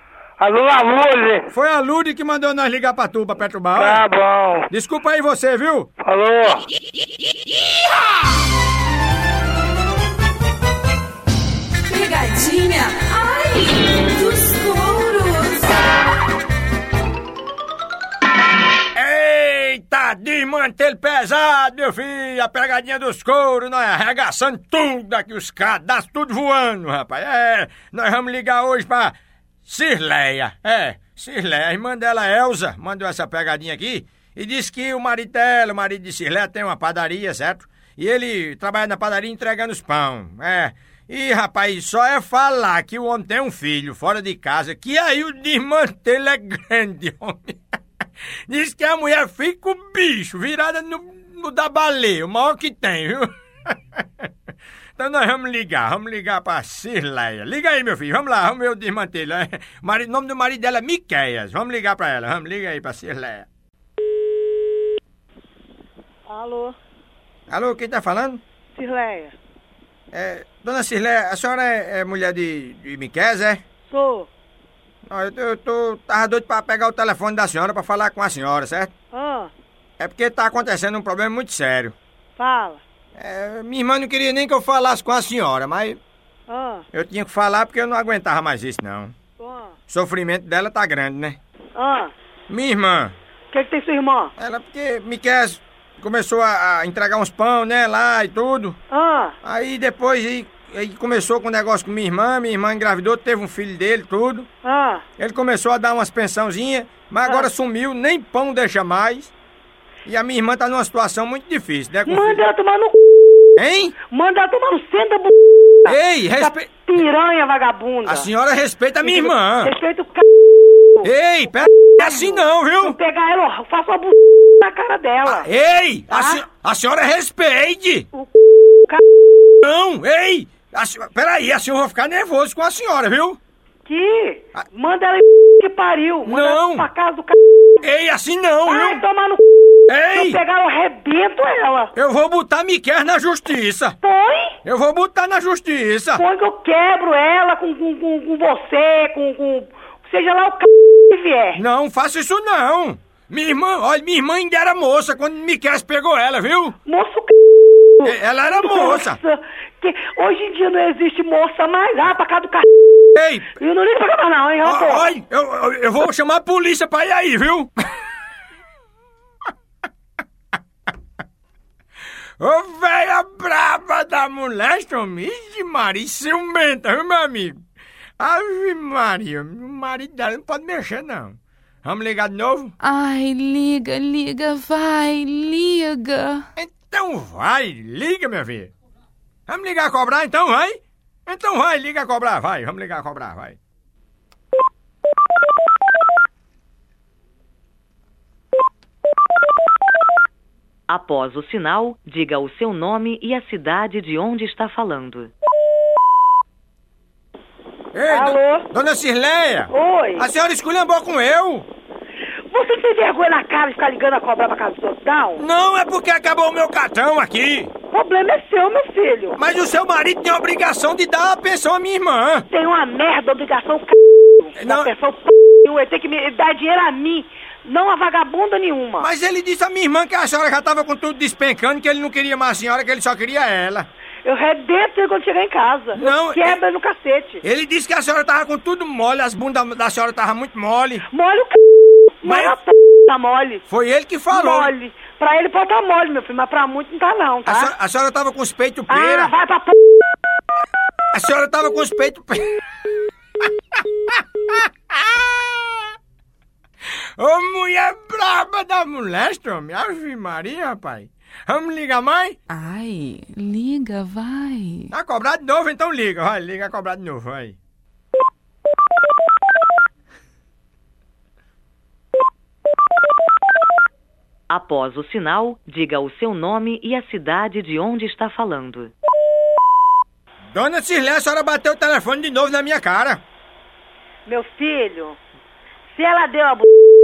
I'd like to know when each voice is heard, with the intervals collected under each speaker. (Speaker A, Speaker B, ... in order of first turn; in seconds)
Speaker A: 0.4-1.5, 3.7-4.7, 6.0-6.6
Speaker B: 1.5-4.0, 4.7-5.9, 18.9-29.1, 29.6-47.6, 48.5-53.3, 55.0-63.5, 67.5-68.4, 70.1-73.6, 75.1-78.9, 80.0-81.9, 83.2-86.0, 86.9-89.1, 89.9-91.4, 92.5-93.1, 94.4-98.8, 99.4-104.5, 105.2-109.3, 110.0-112.4, 113.6-113.9, 115.9-116.7, 118.0-119.7, 121.0-123.0, 125.2-128.1, 129.6-133.4, 136.2-136.9, 137.8-139.0, 139.9-140.4, 141.9-143.9, 144.6-146.2, 151.5-156.7, 158.0-159.2, 163.1-163.5, 164.6-167.7, 172.4-177.6, 178.2-182.7, 186.6-188.7, 189.5-193.6, 207.9-211.7, 215.4-217.7, 219.4-222.4, 224.6-224.9, 229.0-233.8, 235.9-236.6, 237.4-241.0, 242.2-242.6, 243.7-244.7, 247.4-249.3, 251.1-252.5, 257.2-262.4, 264.9-267.6, 280.5-283.2
Speaker C: 11.8-16.0
Speaker D: 66.3-66.8, 68.8-69.3, 73.9-74.3, 79.1-79.5, 82.4-82.8, 86.5-86.8, 89.4-89.7, 91.8-92.1, 93.5-94.3, 98.9-99.3, 104.6-105.0, 112.0-113.0, 114.1-118.3, 119.0-120.2, 122.0-125.5, 126.1-126.4, 133.8-137.4, 138.7-139.4, 140.1-141.9, 144.0-144.6, 146.2-151.6, 156.8-157.3, 158.0-162.7, 163.6-165.1, 208.1-208.7, 209.7-210.3, 212.5-215.4, 217.9-219.4, 222.5-229.1, 234.2-237.4, 241.1-241.6, 242.2-243.6, 244.3-247.7, 248.9-249.8, 284.2-285.2, 285.9-286.7
Speaker E: 182.8-186.4, 262.5-264.9
Speaker F: 200.9-205.3, 274.5-278.9